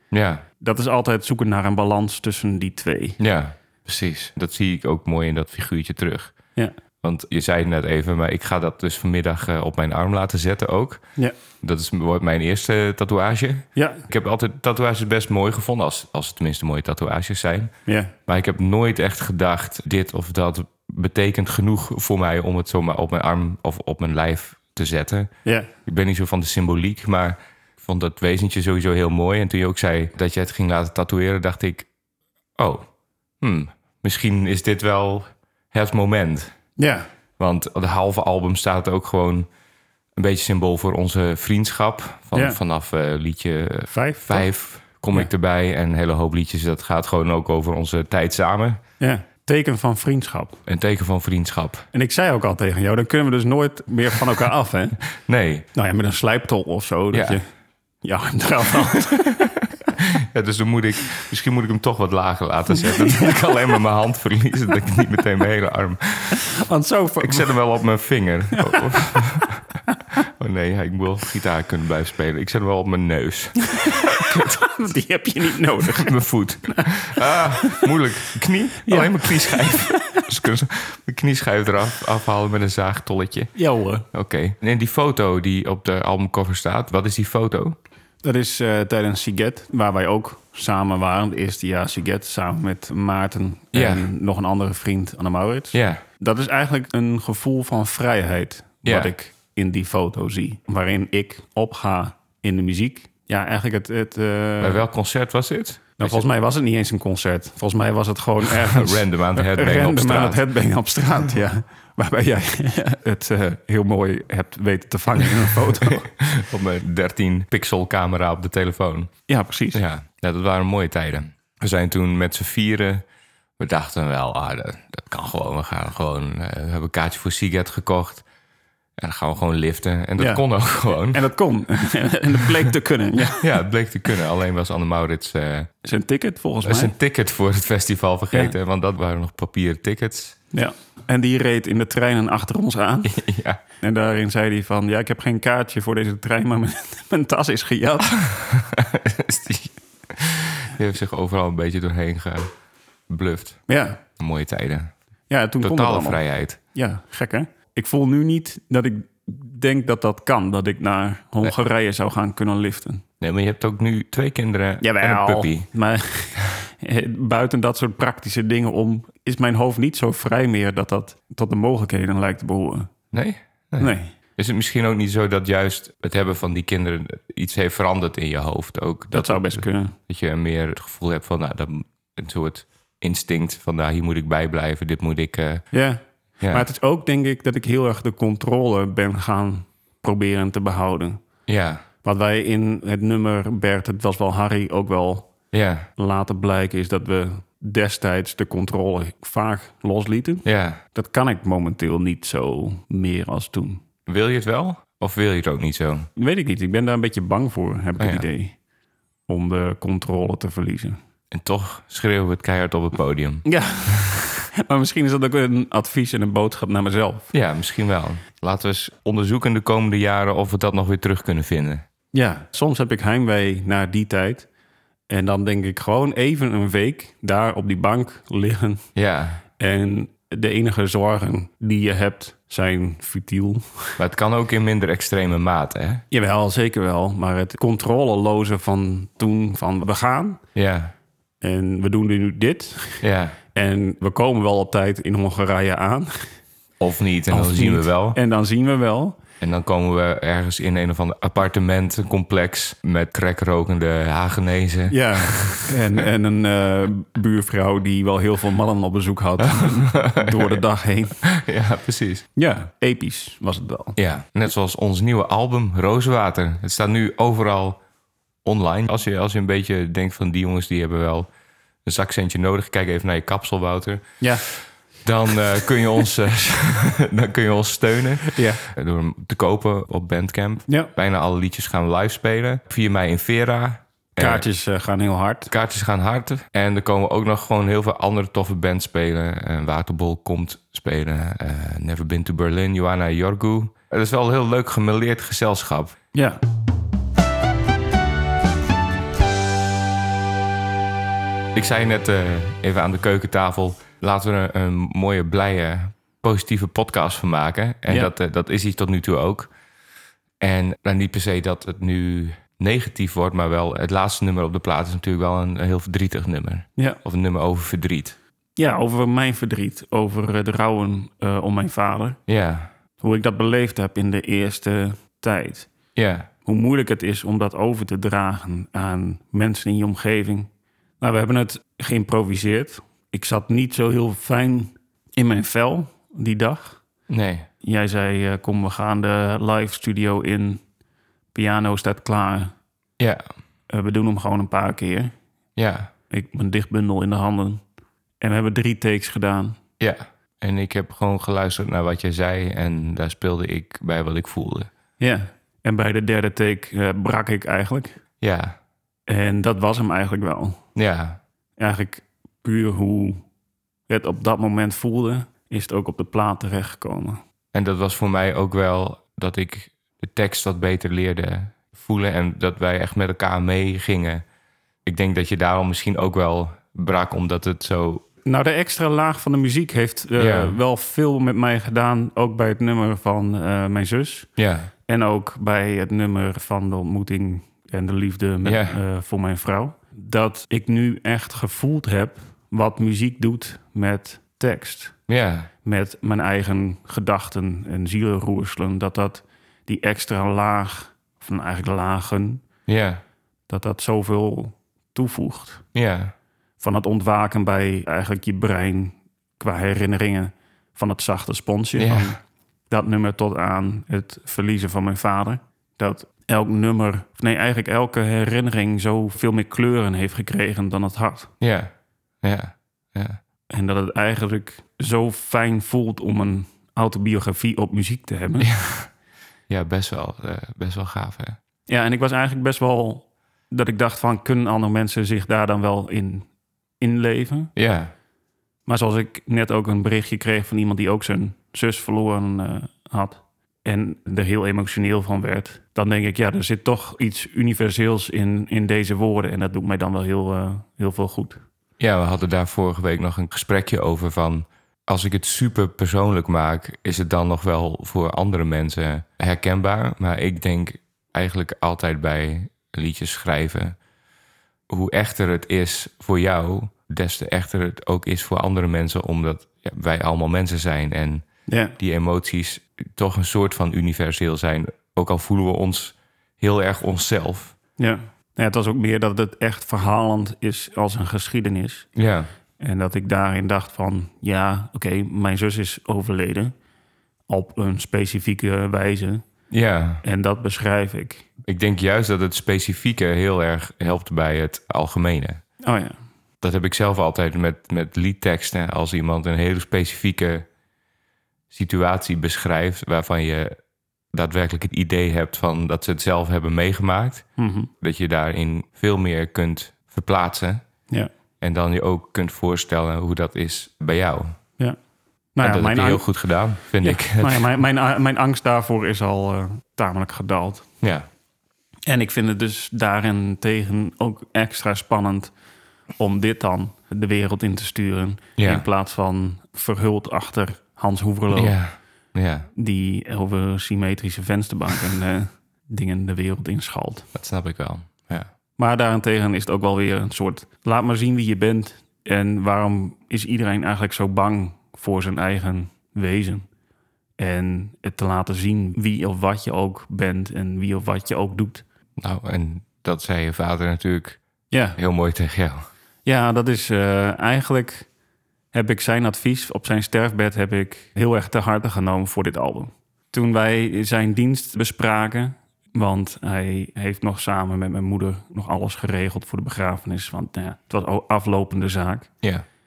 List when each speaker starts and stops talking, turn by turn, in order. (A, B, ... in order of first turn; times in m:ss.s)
0:00.1-0:00.4 A
0:00.6-0:03.2 B
0:03.2-0:06.4 A
0:07.0-0:11.0 A
0:11.6-0:17.7 A
0:13.8-0:14.0 B
0:17.9-0:18.1 B
0:18.3-0:25.3 A
0:25.4-0:25.7 B
0:25.9-0:31.9 A
0:32.6-0:32.9 A
0:33.4-0:36.5 A
0:36.8-0:37.1 B
0:37.4-0:39.5 A
0:40.2-0:48.8 A
0:42.3-0:42.6 B
0:43.9-0:44.5 B
0:49.0-0:50.6 B
0:50.7-0:51.8 A
0:51.9-0:55.0 B
0:55.2-0:55.7 A
0:55.8-0:57.4 B
0:57.1-0:57.4 A
0:58.0-0:59.5 B
1:00.0-1:06.5 A
1:02.9-1:03.3 B
1:06.4-1:07.6 B
1:07.2-1:09.6 A
1:08.6-1:09.2 B
1:10.2-1:14.0 A
1:13.8-1:16.2 B
1:15.9-1:23.5 A
1:17.6-1:17.9 B
1:18.9-1:20.2 B
1:23.6-1:24.1 B
1:24.1-1:27.8 A
1:28.2-1:44.8 B
1:33.7-1:34.1 A
1:35.7-1:36.0 A
1:38.8-1:39.1 A
1:44.6-1:46.2 A
1:46.0-1:56.1 B
1:48.4-1:50.4 A
1:56.0-1:59.1 A
1:59.3-1:59.8 B
1:59.8-2:03.0 A
2:03.6-2:08.2 A
2:09.0-2:11.2 A
2:10.2-2:10.4 B
2:11.0-2:13.5 B
2:13.4-2:15.7 A
2:15.8-2:16.9 B
2:16.6-2:20.4 A
2:20.5-2:23.2 B
2:23.1-2:23.6 A
2:23.8-2:28.3 B
2:28.4-2:32.5 A
2:33.1-2:33.6 A
2:33.7-2:34.0 B
2:34.2-2:34.9 A
2:35.3-2:36.2 B
2:35.6-2:36.6 A
2:36.7-2:43.0 B
2:43.2-2:45.7 A
2:44.8-2:52.9 B
2:53.1-3:05.6 A
2:53.8-2:54.1 B
2:59.1-3:00.0 B
3:05.7-3:11.2 B
3:11.5-3:11.8 A
3:12.0-3:15.3 B
3:15.5-3:15.9 A
3:16.0-3:23.8 B
3:20.4-3:20.8 A
3:24.1-3:26.1 A
3:26.2-3:28.6 B
3:28.0-3:28.3 A
3:29.3-3:31.0 B
3:31.3-3:33.4 A
3:33.4-3:37.3 B
3:37.3-3:41.8 A
3:42.1-3:44.5 B
3:45.1-3:48.9 B
3:49.0-3:49.4 A
3:49.6-3:53.9 B
3:54.0-3:56.0 A
3:56.1-4:00.4 B
4:00.6-4:00.9 A
4:01.4-4:03.0 B
4:03.0-4:03.4 A
4:03.5-4:06.4 B
4:06.8-4:08.2 A
4:07.3-4:09.2 B
4:09.4-4:15.7 A
4:14.9-4:21.2 B
4:19.5-4:20.6 A
4:21.3-4:22.2 A
4:22.4-4:24.0 B
4:24.0-4:27.8 A
4:28.4-4:31.3 A
4:31.9-4:34.5 A
4:35.0-4:44.4 A
4:38.3-4:38.6 B
4:44.2-4:45.5 B
4:45.5-4:56.0 A
4:56.1-4:56.4 B
5:01.6-5:09.5 A
5:10.4-5:18.2 A
5:18.6-5:22.2 B
5:22.3-5:22.7 A
5:23.0-5:25.7 B
5:26.0-5:26.3 A
5:26.4-5:30.5 B
5:31.0-5:36.8 B
5:37.1-5:37.5 A
5:37.6-5:40.6 B
5:41.3-5:42.5 B
5:43.7-5:45.1 B
5:45.6-5:45.9 A
5:46.1-5:47.6 B
5:48.2-5:49.6 B
5:49.8-5:54.7 A
5:55.0-5:58.0 B
5:58.2-5:58.6 A
5:59.1-6:00.6 B
6:00.8-6:01.2 A
6:01.6-6:03.2 B
6:03.9-6:07.2 B
6:07.5-6:14.2 A
6:14.9-6:18.0 A
6:18.2-6:24.3 B
6:20.2-6:20.6 A
6:24.4-6:24.7 A
6:24.9-6:35.0 B
6:28.4-6:28.8 A
6:35.1-6:35.5 A
6:35.6-6:42.4 B
6:42.7-6:43.0 A
6:43.5-6:45.6 B
6:45.8-6:46.1 A
6:46.6-7:01.3 B
6:51.8-6:52.2 A
7:01.4-7:01.7 A
7:02.2-7:03.2 A
7:03.5-7:08.5 B
7:08.4-7:08.9 A
7:09.5-7:11.4 A
7:11.7-7:16.3 B
7:16.8-7:17.5 B
7:17.6-7:17.9 A
7:18.7-7:31.4 B
7:31.8-7:43.8 A
7:44.7-7:51.2 A
7:51.5-7:51.8 B
7:51.8-7:57.6 A
7:57.8-8:01.9 B
8:02.0-8:02.3 A
8:02.6-8:06.5 B
8:07.3-8:09.2 B
8:09.5-8:10.0 A
8:10.0-8:11.3 B
8:11.5-8:15.4 A
8:15.6-8:16.0 B
8:16.4-8:20.5 A
8:21.5-8:23.6 A
8:24.1-8:27.2 A
8:27.4-8:27.7 B
8:27.8-8:30.6 A
8:31.4-8:34.4 A
8:35.4-8:36.1 B
8:35.4-8:37.5 A
8:36.8-8:40.6 B
8:40.8-8:41.1 A
8:41.9-8:45.3 B
8:46.0-8:51.6 B
8:48.4-8:48.6 A
8:51.3-8:52.5 A
8:52.6-8:57.1 B
8:57.2-8:58.3 A
8:58.6-9:06.5 B
9:07.2-9:11.6 B
9:12.0-9:14.2 A
9:14.5-9:14.8 B
9:14.8-9:15.7 A
9:16.0-9:17.9 B
9:18.5-9:32.1 B